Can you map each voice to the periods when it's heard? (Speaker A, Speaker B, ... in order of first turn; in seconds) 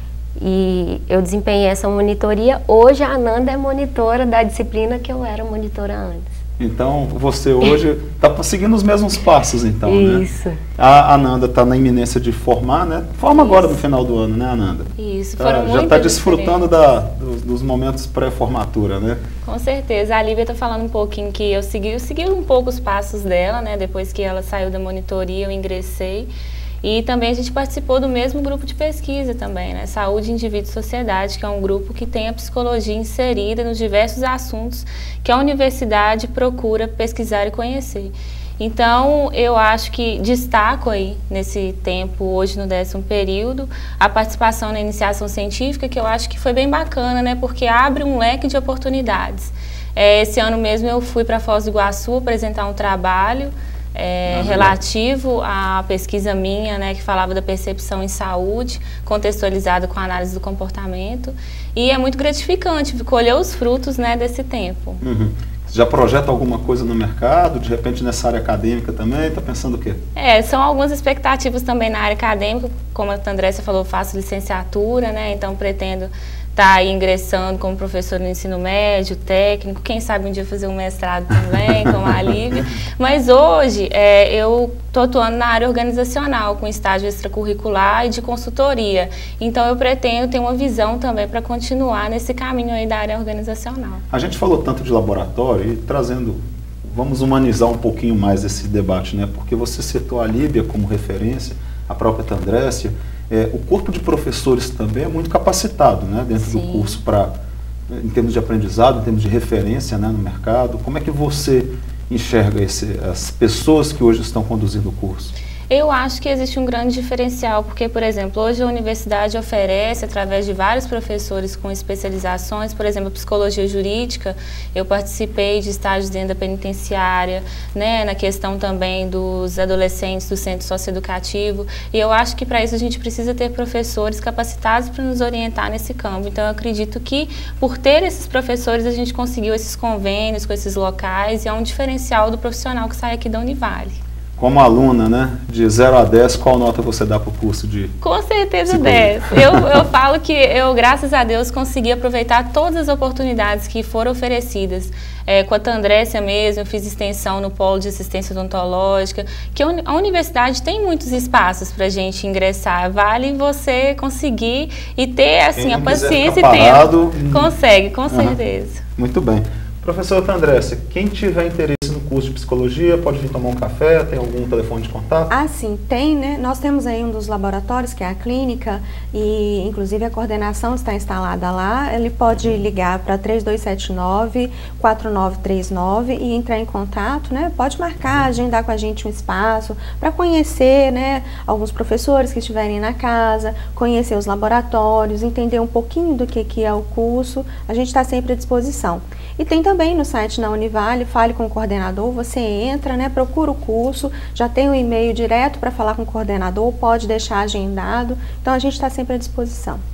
Speaker A: 0.4-6.3, 9.8-10.6
Speaker B: 6.6-19.2, 54.3-54.8, 65.0-70.0, 94.1-107.3, 107.9-115.3, 144.4-147.9, 148.7-149.6, 165.6-167.5, 168.1-168.4, 169.0-175.3
Speaker C: 13.3-13.8, 15.0-16.7, 19.4-26.3, 26.8-65.0, 70.2-94.0, 106.4-107.0, 115.7-144.0, 148.0-168.8
Speaker D: 175.3-209.8